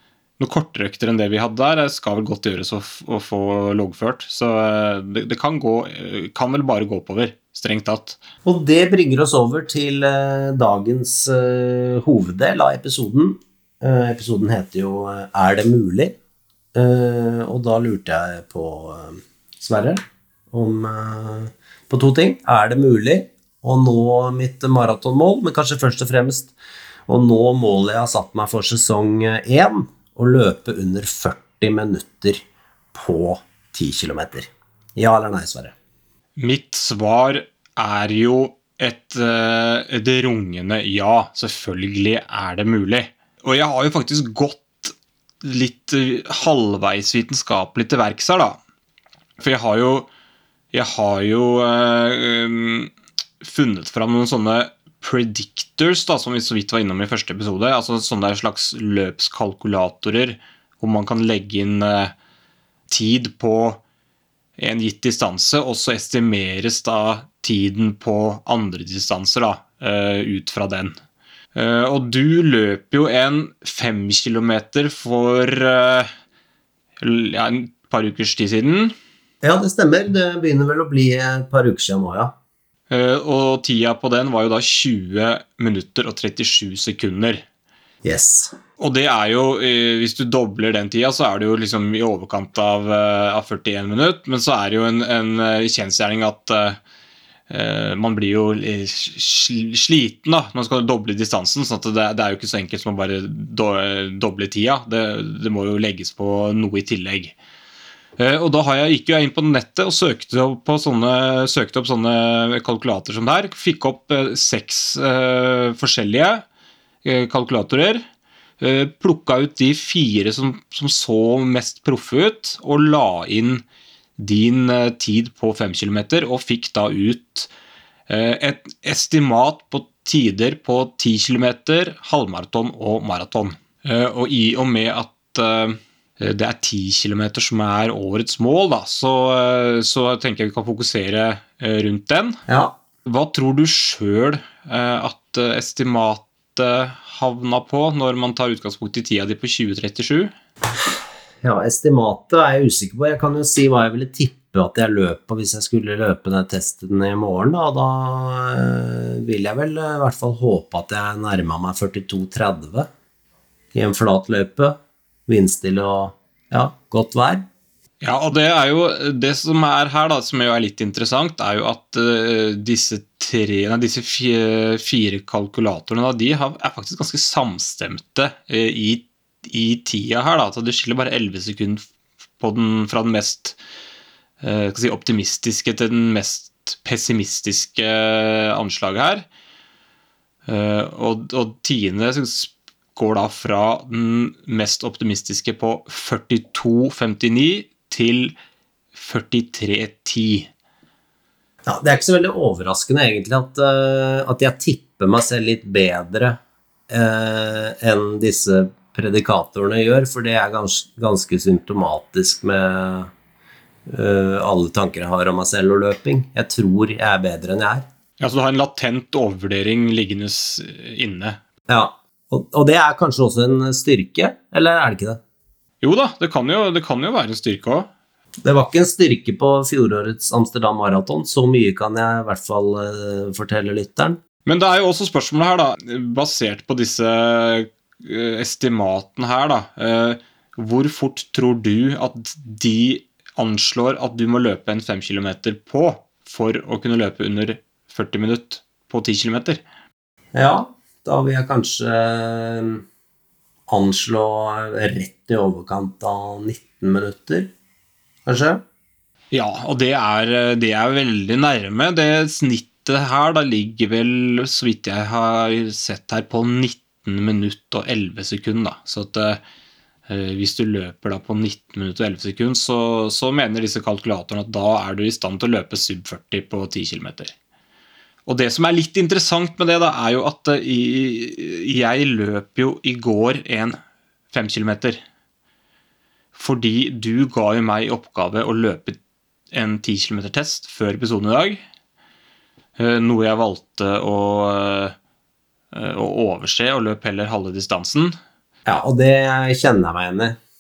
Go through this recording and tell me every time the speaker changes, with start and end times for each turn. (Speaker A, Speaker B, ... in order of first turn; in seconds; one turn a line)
Speaker A: 0.4-8.2
Speaker B: 8.4-16.2
Speaker B: 16.7-20.0
Speaker B: 20.5-26.5
Speaker B: 27.1-32.4
Speaker B: 32.9-35.7
Speaker A: 36.4-48.6
Speaker A: 49.4-50.1
Speaker A: 50.7-62.1
Speaker A: 62.9-63.8
Speaker A: 64.6-71.0
Speaker A: 71.5-76.1
Speaker A: 77.0-78.9
Speaker B: 79.4-82.3
Speaker A: 82.9-87.4
Speaker B: 88.0-88.5
Speaker A: 88.8-96.8
Speaker A: 97.5-107.3
Speaker A: 108.2-116.4
Speaker A: 117.0-118.0
Speaker A: 118.6-123.6
Speaker A: 124.2-127.5
Speaker A: 128.1-142.4
Speaker B: 142.5-142.7
Speaker A: 143.1-150.3
Speaker B: 151.4-162.9
Speaker B: 163.7-167.5
Speaker A: 168.0-181.8
Speaker A: 182.4-183.6
Speaker A: 184.4-189.2
Speaker A: 190.5-198.3
Speaker A: 198.9-200.5
Speaker B: 201.7-213.1
Speaker B: 213.9-217.9
Speaker A: 218.2-221.4
Speaker B: 221.7-225.2
Speaker A: 225.8-227.9
Speaker B: 228.4-234.2
Speaker A: 234.4-249.6
Speaker B: 250.3-252.8
Speaker B: 253.7-257.5
Speaker B: 258.3-258.6
Speaker A: 259.3-269.4
Speaker A: 270.1-277.3
Speaker A: 278.3-283.8
Speaker A: 284.3-285.0
Speaker A: 286.4-289.0
Speaker A: 289.5-291.6
Speaker A: 292.8-294.9
Speaker A: 295.7-298.2
Speaker B: 298.7-300.4